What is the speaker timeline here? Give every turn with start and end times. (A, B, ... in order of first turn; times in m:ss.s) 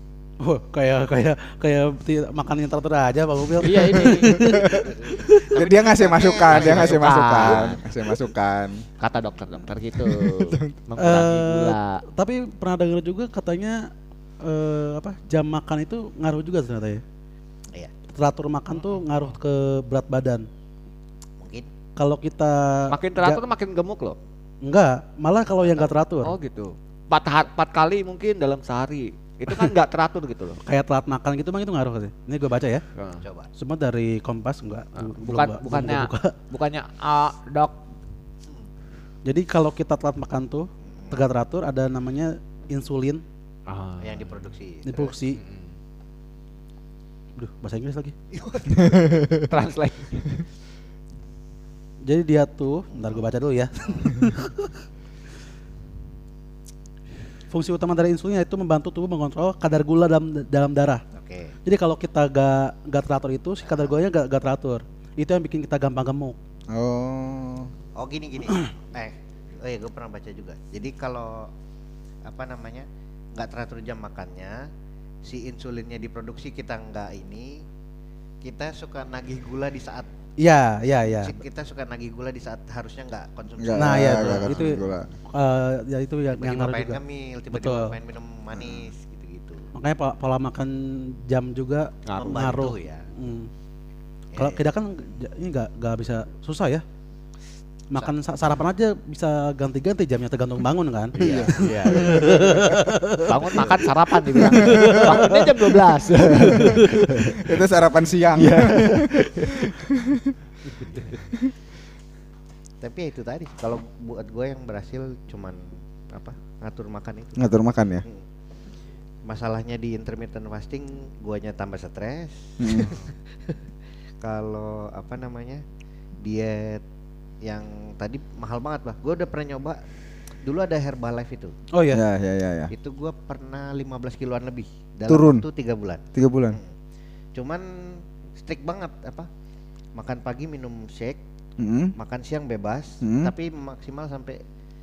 0:00.4-0:05.5 A
0:03.6-0:04.4 B
0:03.9-0:05.0 C
0:05.5-0:08.8 C
0:05.5-0:07.7 D
0:06.1-0:08.2 B
0:09.0-0:12.0 B
0:10.0-0:10.8 C
0:11.0-0:17.0 A
0:18.1-0:20.5 A
0:18.8-0:19.3 B
0:21.4-0:21.7 D
0:22.0-0:23.4 A
0:22.9-0:24.2 B
0:24.6-0:26.3 A
0:26.2-0:30.6 B
0:30.6-0:32.8 A
0:33.0-0:33.2 B
0:33.2-0:33.5 D
0:33.6-0:36.4 A
0:35.0-0:37.8 B
0:39.3-0:43.2 A
0:40.9-0:41.2 D
0:43.7-0:44.4 B
0:44.0-0:45.2 D
0:44.9-0:45.4 A
0:45.4-0:45.7 B
0:47.4-0:48.1 A
0:48.3-0:49.4 D
0:48.8-0:49.6 C
0:49.5-0:50.2 B
0:52.0-0:54.7 A
0:52.9-0:54.2 D
0:57.5-1:01.0 A
1:01.2-1:01.6 D
1:01.6-1:06.4 A
1:03.6-1:04.0 D
1:06.7-1:07.7 C
1:08.0-1:11.5 D
1:12.3-1:14.7 D
1:15.2-1:17.6 D
1:18.4-1:20.1 D
1:20.4-1:21.3 A
1:21.1-1:24.6 D
1:23.6-1:25.1 C
1:23.8-1:27.0 A
1:26.3-1:29.7 D
1:27.5-1:28.0 A
1:29.8-1:33.5 A
1:32.0-1:32.6 B
1:32.2-1:33.1 D
1:34.3-1:34.7 D
1:34.4-1:36.8 A
1:37.9-1:47.4 A
1:41.2-1:42.0 D
1:41.2-1:42.6 B
1:41.3-1:42.9 C
1:43.3-1:47.6 B
1:44.6-1:45.2 C
1:46.5-1:50.4 C
1:48.3-1:49.8 B
1:50.7-1:51.1 B
1:52.8-1:57.5 D
1:57.4-1:58.0 C
1:59.2-2:03.6 D
2:02.6-2:03.0 C
2:04.2-2:05.6 D
2:06.2-2:06.8 D
2:07.4-2:09.8 D
2:10.4-2:11.6 D
2:11.7-2:12.0 A
2:11.9-2:12.7 C
2:12.7-2:16.7 D
2:15.1-2:15.4 C
2:16.2-2:16.6 C
2:17.4-2:19.3 D
2:20.0-2:21.2 D
2:21.6-2:21.9 C
2:22.0-2:24.4 D
2:23.0-2:23.3 C